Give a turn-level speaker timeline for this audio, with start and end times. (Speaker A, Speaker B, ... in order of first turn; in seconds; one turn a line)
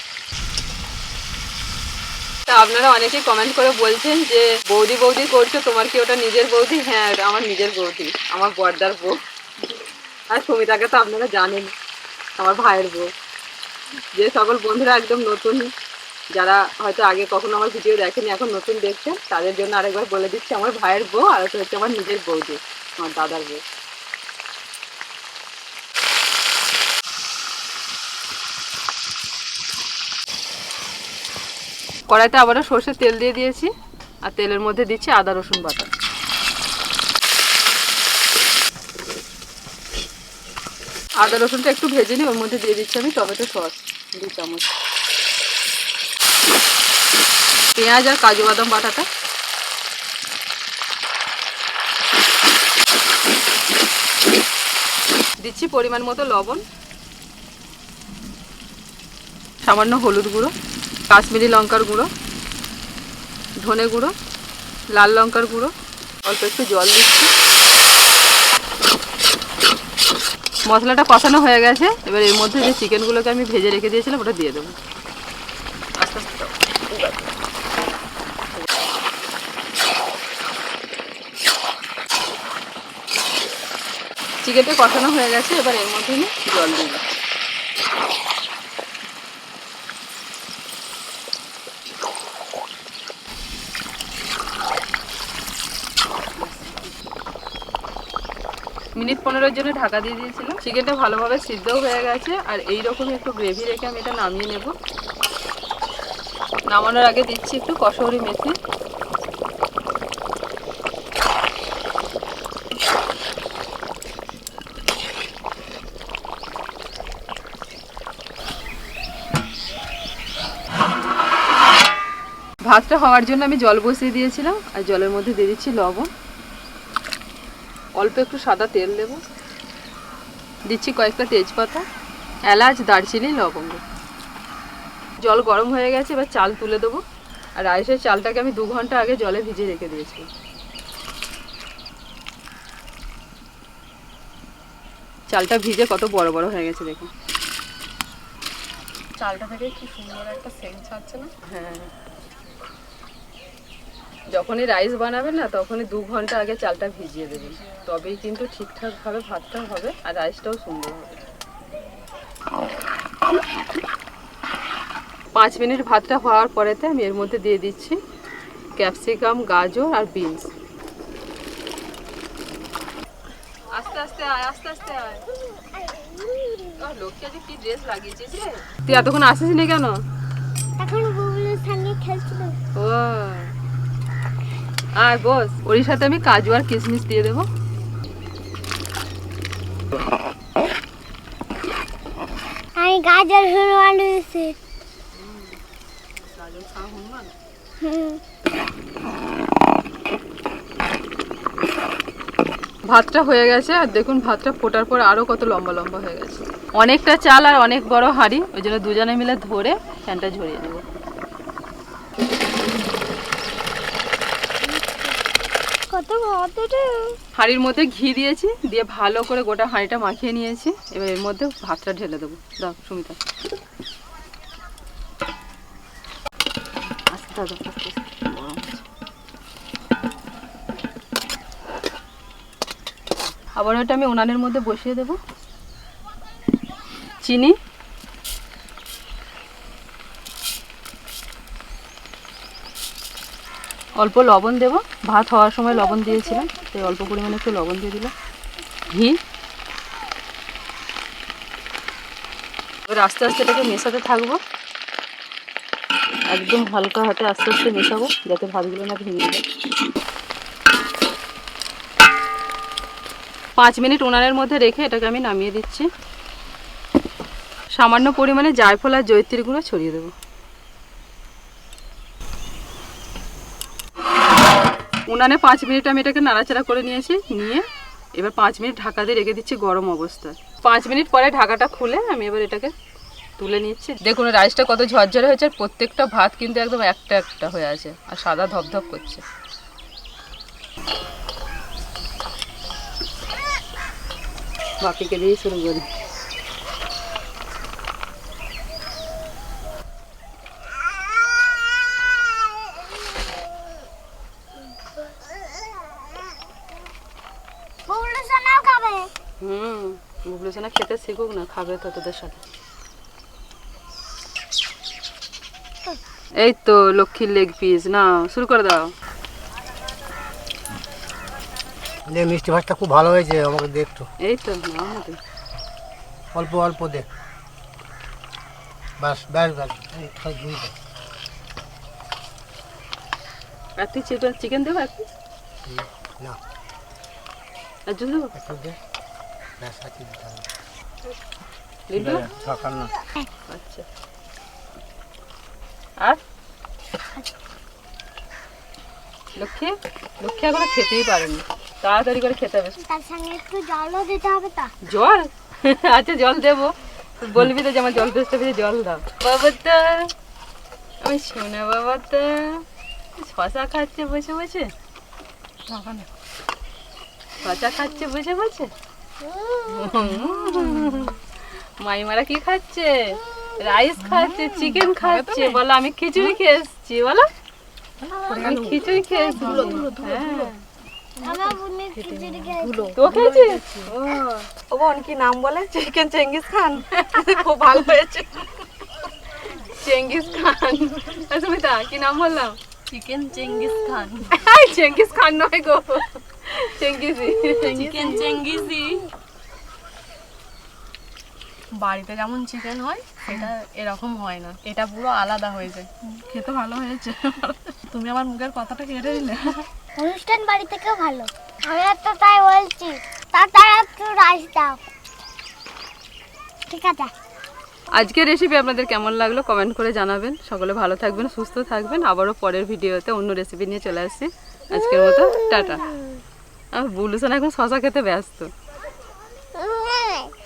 Speaker A: 2.5-9.2
Speaker A: 10.3-11.7
Speaker A: 12.4-13.1
Speaker A: 14.2-15.7
Speaker A: 16.3-23.6
Speaker A: 32.1-33.7
Speaker A: 34.2-35.9
Speaker A: 41.2-44.7
Speaker A: 47.7-49.0
Speaker A: 55.4-56.6
Speaker A: 59.6-60.5
Speaker A: 61.1-62.1
Speaker A: 63.6-64.1
Speaker A: 64.9-65.7
Speaker A: 66.2-67.3
Speaker A: 70.7-74.8
Speaker A: 76.0-77.3
Speaker A: 84.4-87.0
Speaker A: 96.4-96.9
Speaker A: 99.0-104.7
Speaker A: 106.7-108.5
Speaker A: 122.7-126.1
Speaker A: 128.0-129.2
Speaker A: 130.7-131.8
Speaker A: 132.4-133.8
Speaker A: 135.2-137.0
Speaker A: 137.6-140.3
Speaker A: 145.3-147.1
Speaker B: 149.2-151.3
Speaker A: 151.4-151.9
Speaker A: 154.3-161.2
Speaker B: 157.4-157.8
Speaker A: 165.3-168.0
Speaker A: 168.8-170.5
Speaker A: 173.7-175.2
Speaker C: 175.8-176.7
Speaker A: 176.7-180.0
Speaker C: 180.8-182.6
Speaker A: 182.7-183.5
Speaker A: 185.0-187.5
Speaker C: 192.8-194.5
Speaker A: 195.1-195.6
Speaker A: 196.2-197.3
Speaker C: 197.8-198.2
Speaker A: 202.9-210.8
Speaker C: 214.7-215.1
Speaker C: 215.9-217.2
Speaker A: 217.3-223.2
Speaker A: 227.0-228.8
Speaker A: 233.6-235.2
Speaker A: 237.2-237.6
Speaker A: 244.0-248.1
Speaker C: 245.8-246.7
Speaker A: 248.9-249.2
Speaker A: 252.9-254.4
Speaker A: 256.3-259.4
Speaker A: 263.6-265.9
Speaker A: 267.8-270.1
Speaker A: 275.1-282.7
Speaker A: 283.4-289.2
Speaker A: 294.8-295.9
Speaker C: 307.9-309.1
Speaker A: 309.4-312.4
Speaker A: 316.4-318.9
Speaker D: 322.1-324.1
Speaker A: 324.2-325.2
Speaker D: 326.3-327.1
Speaker D: 329.0-330.7
Speaker A: 333.8-335.1
Speaker D: 335.6-336.4
Speaker A: 337.9-338.3
Speaker D: 338.4-338.8
Speaker D: 339.6-340.4
Speaker A: 341.9-342.3
Speaker D: 342.2-342.9
Speaker A: 343.5-343.9
Speaker A: 349.4-352.8
Speaker C: 352.8-354.7
Speaker A: 354.8-360.1
Speaker A: 361.0-362.6
Speaker A: 363.2-364.7
Speaker B: 365.7-366.1
Speaker A: 367.4-368.7
Speaker C: 369.2-369.8
Speaker A: 369.7-371.1
Speaker B: 370.0-371.1
Speaker A: 371.8-377.3
Speaker B: 374.0-375.6
Speaker B: 378.0-380.6
Speaker C: 378.1-379.8
Speaker A: 378.4-380.5
Speaker B: 381.2-383.9
Speaker C: 381.2-383.0
Speaker A: 382.9-384.4
Speaker B: 384.6-388.6
Speaker A: 389.4-392.6
Speaker B: 392.9-394.4
Speaker A: 394.2-398.2
Speaker B: 397.4-399.1
Speaker B: 401.7-409.6
Speaker C: 409.9-414.8
Speaker C: 416.7-417.1
Speaker A: 417.9-425.9
Speaker A: 426.7-428.5
Speaker C: 429.6-430.3